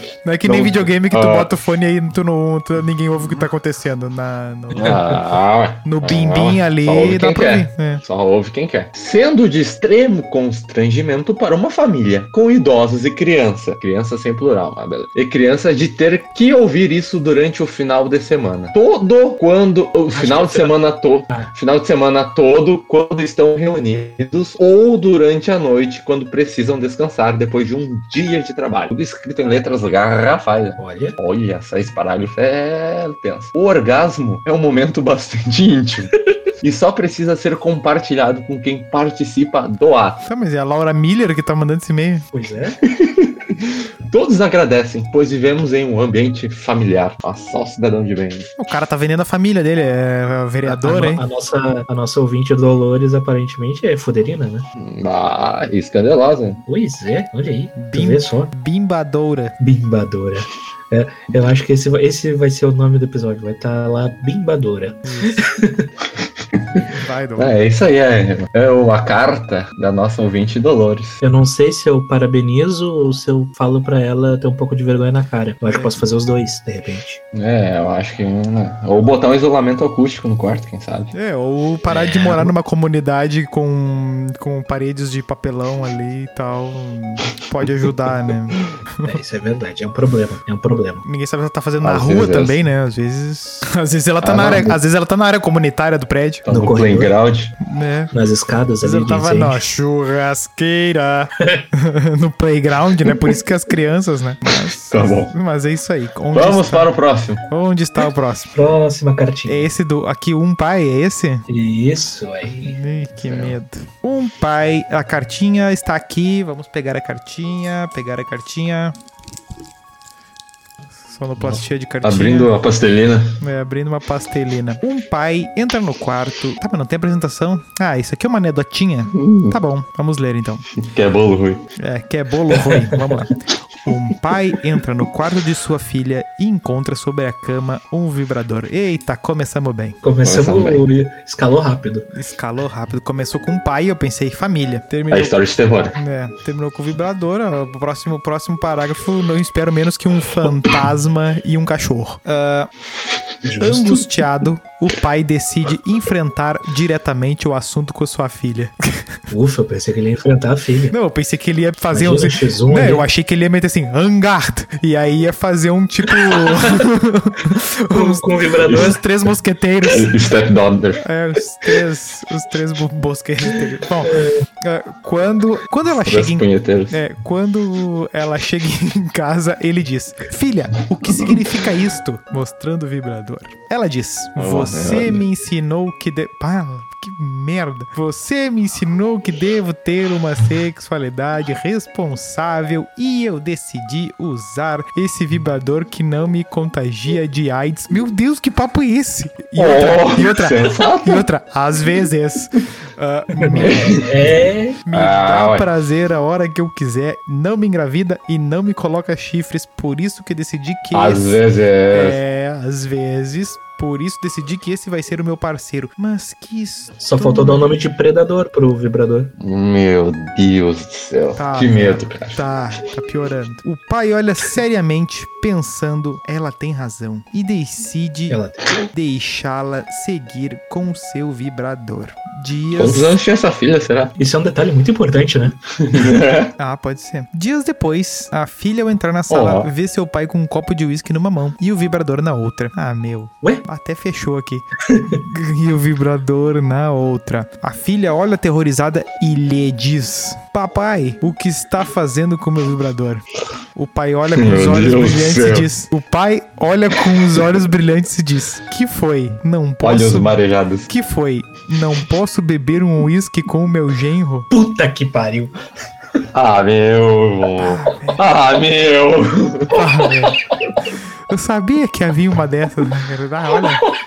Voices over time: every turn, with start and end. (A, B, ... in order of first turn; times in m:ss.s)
0:00.2-0:05.2 A
0:00.4-0:01.6 B
0:04.7-0:40.2 B
0:05.8-0:08.0 A
0:20.1-0:20.8 C
0:30.8-0:31.2 C
0:40.2-0:42.3 A
0:42.3-0:42.8 C
0:42.8-0:48.5 B
0:48.6-0:51.2 A
0:50.6-0:54.6 C
0:54.8-0:56.6 B
0:56.7-0:58.5 C
0:57.8-0:59.6 A
0:59.6-1:05.9 C
1:05.0-1:05.4 A
1:06.6-1:06.8 B
1:07.0-1:07.6 A
1:07.4-1:11.2 B
1:11.2-1:17.2 C
1:15.6-1:16.0 A
1:17.3-1:21.1 B
1:21.1-1:29.1 A
1:21.9-1:22.5 C
1:29.0-1:31.0 C
1:31.0-1:36.4 A
1:31.8-1:32.6 B
1:34.2-1:34.8 B
1:36.4-1:37.6 B
1:36.5-1:37.1 C
1:37.6-1:38.1 A
1:38.1-1:39.6 C
1:38.8-1:46.9 A
1:44.9-1:45.3 B
1:46.3-1:47.4 B
1:47.5-1:48.6 A
1:48.5-1:49.7 C
1:49.5-1:51.4 A
1:51.5-1:52.8 C
1:52.5-1:58.9 A
1:53.2-1:53.6 B
2:01.0-2:02.5 A
2:01.4-2:03.4 B
2:03.4-2:10.7 A
2:09.1-2:09.6 B
2:10.8-2:11.6 B
2:11.8-2:20.0 A
2:20.0-2:22.0 C
2:20.2-2:20.8 B
2:22.1-2:25.4 A
2:25.1-2:26.0 B
2:25.9-2:32.7 A
2:33.4-2:34.1 C
2:33.6-2:38.8 A
2:39.3-2:40.9 C
2:40.9-2:50.1 A
2:41.9-2:43.1 C
2:46.4-2:46.8 C
2:47.9-2:49.0 C
2:48.6-2:48.9 B
2:49.9-2:51.0 B
2:51.0-3:24.1 A
2:54.1-2:54.4 C
2:56.0-2:57.0 B
3:04.4-3:05.2 B
3:19.6-3:21.3 B
3:23.4-3:24.8 C
3:23.6-3:24.1 B
3:24.8-3:31.4 A
3:24.9-3:25.7 B
3:30.9-3:32.2 B
3:31.9-3:37.7 A
3:37.0-3:39.3 C
3:39.4-3:42.4 B
3:41.4-3:48.4 A
3:48.3-3:48.7 C
3:48.9-3:53.2 A
3:52.7-3:54.1 B
3:54.2-3:56.0 C
3:55.9-3:56.5 B
3:56.6-4:24.5 A
3:59.3-3:59.7 B
4:14.3-4:15.7 B
4:17.1-4:17.4 B
4:19.8-4:20.9 B
4:24.5-4:25.5 C
4:26.3-4:29.9 B
4:27.6-4:28.3 A
4:29.7-4:30.4 A
4:31.3-4:33.8 A